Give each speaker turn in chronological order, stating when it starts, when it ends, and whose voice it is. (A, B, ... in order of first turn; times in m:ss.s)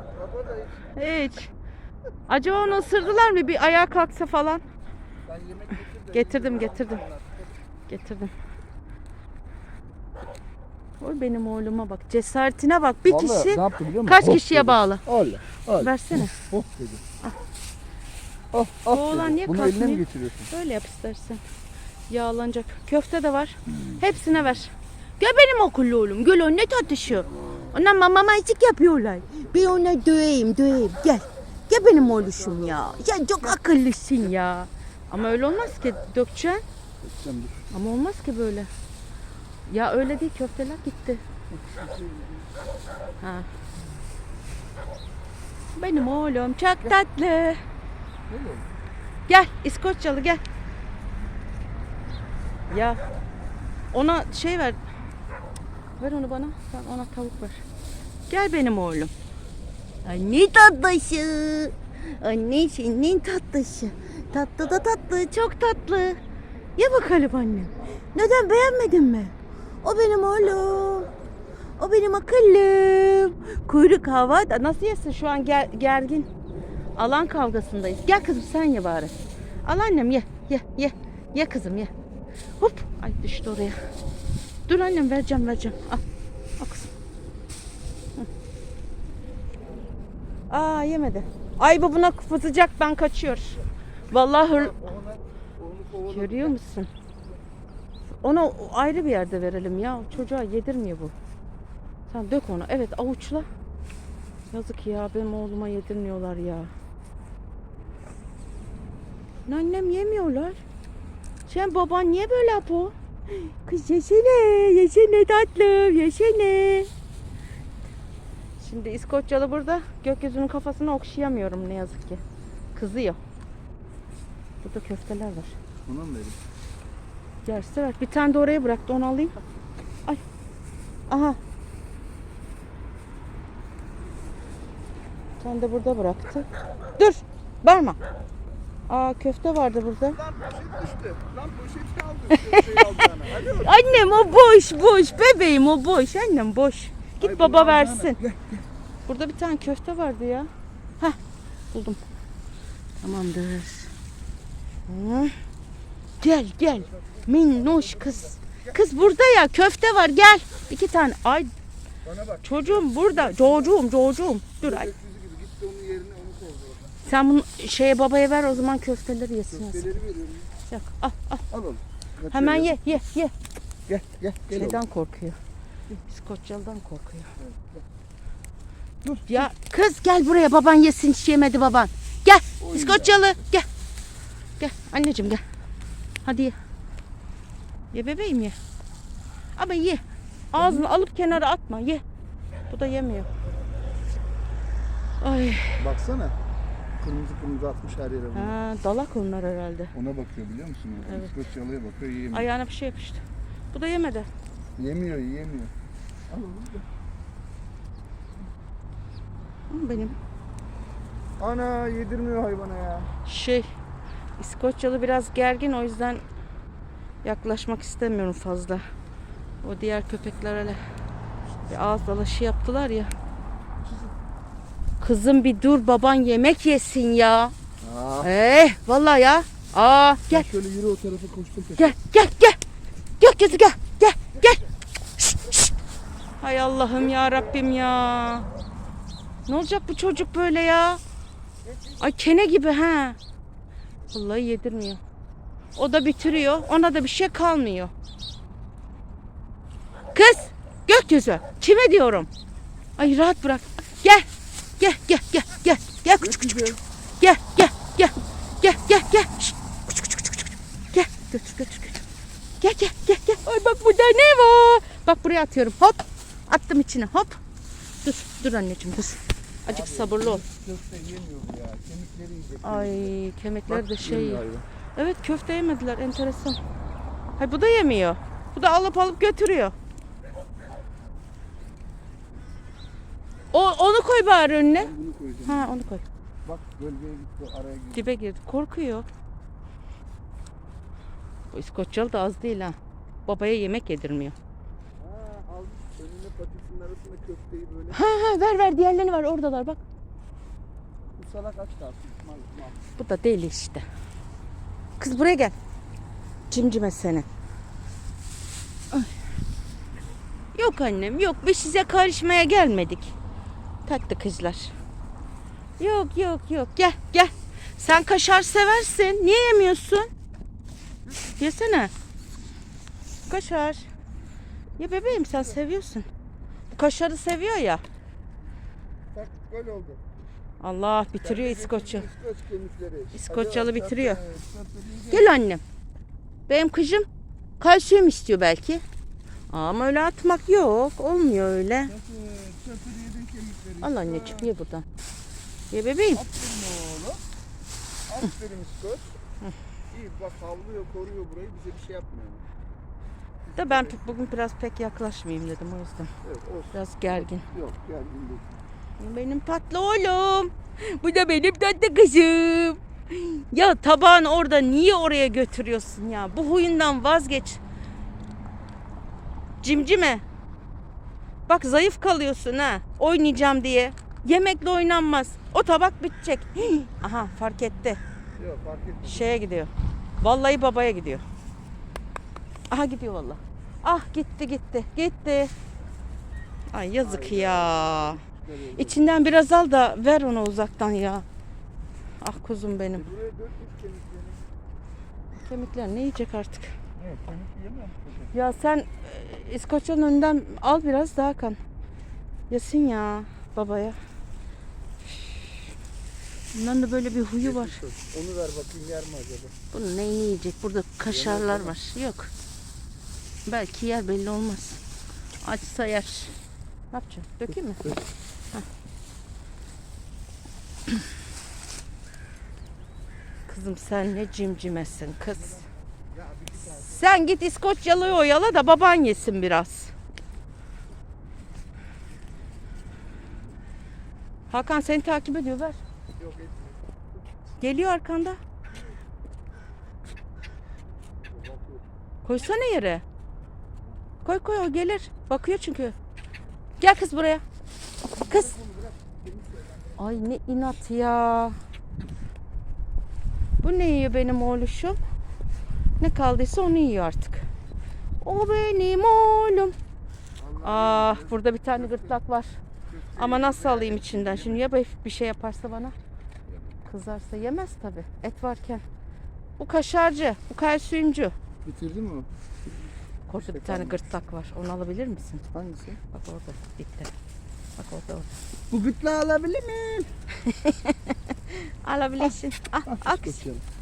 0:00.2-0:00.9 A
0:01.0-0:01.5 B
0:02.3-0:04.6 B
0:05.2-0:07.5 A
0:06.1-0:07.0 B
0:07.9-0:08.3 B
0:11.0-0:15.0 B
0:13.0-0:17.0 A
0:15.7-0:16.4 B
0:18.5-0:20.5 A
0:18.9-0:21.4 B
0:22.1-0:36.6 B
0:31.7-0:33.6 A
0:37.0-0:37.7 A
0:37.7-0:38.7 B
0:39.7-0:41.2 B
0:41.5-0:42.5 A
0:43.2-0:43.5 B
0:45.7-0:47.6 B
0:48.3-0:48.7 A
0:49.3-0:50.4 B
0:52.7-0:53.0 B
0:53.9-0:54.8 B
0:56.0-0:57.6 B
0:58.3-0:59.1 B
1:00.0-1:06.2 B
1:06.8-1:11.1 B
1:11.8-1:16.3 B
1:17.0-1:21.9 B
1:22.6-1:23.8 B
1:24.7-1:26.0 B
1:26.6-1:26.9 B
1:30.5-1:34.8 B
1:34.4-1:36.6 A
1:36.0-1:36.9 B
1:38.2-1:41.1 B
1:42.1-1:43.5 B
1:44.5-1:46.7 B
1:49.5-1:50.6 B
1:51.4-1:56.9 B
1:58.6-2:02.2 B
2:02.7-2:03.2 B
2:04.6-2:05.6 B
2:05.8-2:06.4 A
2:07.4-2:09.4 B
2:11.1-2:11.4 B
2:15.4-2:18.0 B
2:18.9-2:20.2 B
2:20.2-2:24.2 A
2:22.3-2:28.2 B
2:27.2-2:28.6 A
2:29.1-2:31.2 B
2:31.7-2:32.0 B
2:33.0-2:33.9 B
2:34.9-2:35.3 B
2:36.2-2:41.5 B
2:36.8-2:39.1 A
2:42.0-2:43.8 A
2:42.4-2:44.9 B
2:44.6-2:46.9 A
2:47.0-2:49.9 B
2:49.5-2:50.5 A
2:50.7-2:51.4 B
2:51.5-2:53.0 A
2:52.3-2:53.3 B
2:53.9-2:54.8 A
2:54.5-2:55.4 B
2:56.1-2:57.3 B
2:57.4-2:57.8 A
2:59.0-2:59.5 A
2:59.3-3:03.7 B
3:02.6-3:03.3 A
3:04.6-3:05.4 B
3:06.2-3:06.5 B
3:07.9-3:08.5 B
3:09.6-3:12.0 B
3:10.6-3:10.9 A
3:12.7-3:13.3 B
3:15.2-3:15.8 B
3:15.8-3:16.4 A
3:17.0-3:18.6 A
3:18.3-3:19.9 B
3:19.9-3:22.5 A
3:21.0-3:21.3 B
3:22.3-3:24.3 B
3:24.8-3:25.7 A
3:26.3-3:26.8 A
3:29.7-3:30.2 B
3:31.4-3:33.1 A
3:33.2-3:33.7 B
3:34.4-3:36.2 B
3:37.2-3:38.8 B
3:39.6-3:40.8 B
3:41.7-3:43.1 B
3:45.0-3:47.5 B
3:47.8-3:48.3 A
3:48.2-3:50.5 B
3:50.3-3:52.0 A
3:51.8-3:52.6 B
3:53.2-3:54.7 B
3:55.2-3:55.7 B
3:56.4-3:58.5 B
3:59.5-4:01.0 B
4:02.0-4:03.2 B
4:04.1-4:05.0 B
4:05.8-4:07.9 B
4:10.1-4:12.3 B
4:13.0-4:14.3 B
4:14.8-4:16.5 B
4:16.2-4:16.8 A
4:17.2-4:22.0 B
4:22.6-4:27.4 B
4:28.0-4:30.4 B
4:29.7-4:33.2 A
4:32.6-4:36.6 B
4:33.7-4:34.6 A
4:37.4-4:39.8 B
4:43.5-4:44.9 B
4:44.8-4:45.7 A
4:45.4-4:46.0 B
4:46.4-4:48.1 A
4:47.9-4:49.1 B
4:51.5-4:54.4 B
4:55.0-4:58.0 A
4:57.9-4:59.8 B
5:01.2-5:02.8 A
5:03.0-5:03.8 B
5:05.0-5:05.6 B
5:06.5-5:07.3 B
5:10.6-5:13.1 B
5:13.8-5:14.7 B
5:15.8-5:20.1 B
5:21.4-5:21.9 B
5:23.3-5:23.9 B
5:24.8-5:26.1 B
5:26.7-5:27.8 B
5:29.1-5:30.0 A
5:30.6-5:32.1 B
5:31.2-5:35.3 A
5:33.2-5:34.2 B
5:35.1-5:35.6 B
5:36.5-5:37.1 B
5:37.6-5:38.8 B
5:39.5-5:42.0 B
5:41.9-5:44.6 A
5:43.8-5:44.9 B
5:45.7-5:46.2 B
5:46.1-5:47.2 A
5:48.1-5:49.1 A
5:49.9-5:52.4 A
5:53.5-5:54.2 A
5:53.5-5:56.1 B
5:56.2-5:58.6 A
5:56.7-5:57.5 B
5:59.0-6:07.6 B
6:09.6-6:10.2 B
6:11.5-6:18.0 B
6:18.4-6:19.4 A
6:19.0-6:21.2 B
6:22.7-6:25.5 B
6:26.7-6:28.2 B
6:27.0-6:29.2 A
6:28.8-6:31.3 B
6:32.2-6:33.1 B
6:32.9-6:34.4 A
6:35.4-6:36.7 B
6:37.0-6:38.4 A
6:38.3-6:41.6 B
6:42.5-6:44.0 B
6:46.5-6:47.8 B
6:47.4-6:49.6 A
6:49.7-6:52.3 B
6:51.0-6:51.8 A
6:53.5-6:54.8 B
6:55.4-6:56.4 B
6:56.9-6:57.9 B
6:57.8-6:58.0 A
7:03.5-7:05.7 B
7:06.1-7:07.1 A
7:06.8-7:09.9 B
7:14.5-7:15.8 B
7:16.2-7:16.8 A
7:17.6-7:18.4 B
7:21.2-7:21.8 A
7:22.2-7:23.0 B
7:24.2-7:26.0 B
7:26.8-7:27.4 B
7:28.2-7:30.2 A
7:28.2-7:28.5 B
7:30.0-7:31.6 B
7:33.6-7:35.0 B
7:36.0-7:37.5 B
7:38.2-7:39.8 B
7:40.4-7:42.2 A
7:40.6-7:42.6 B
7:42.9-7:44.7 A
7:43.2-7:46.0 B
7:46.8-7:48.8 B
7:49.6-7:51.3 B
7:51.6-7:52.3 A
7:53.3-7:55.4 B
7:53.3-7:54.0 A
7:55.5-7:56.0 A
7:56.1-7:57.1 B
7:57.8-7:58.3 B
7:58.7-8:00.1 A
8:00.4-8:03.4 B
8:02.9-8:03.6 A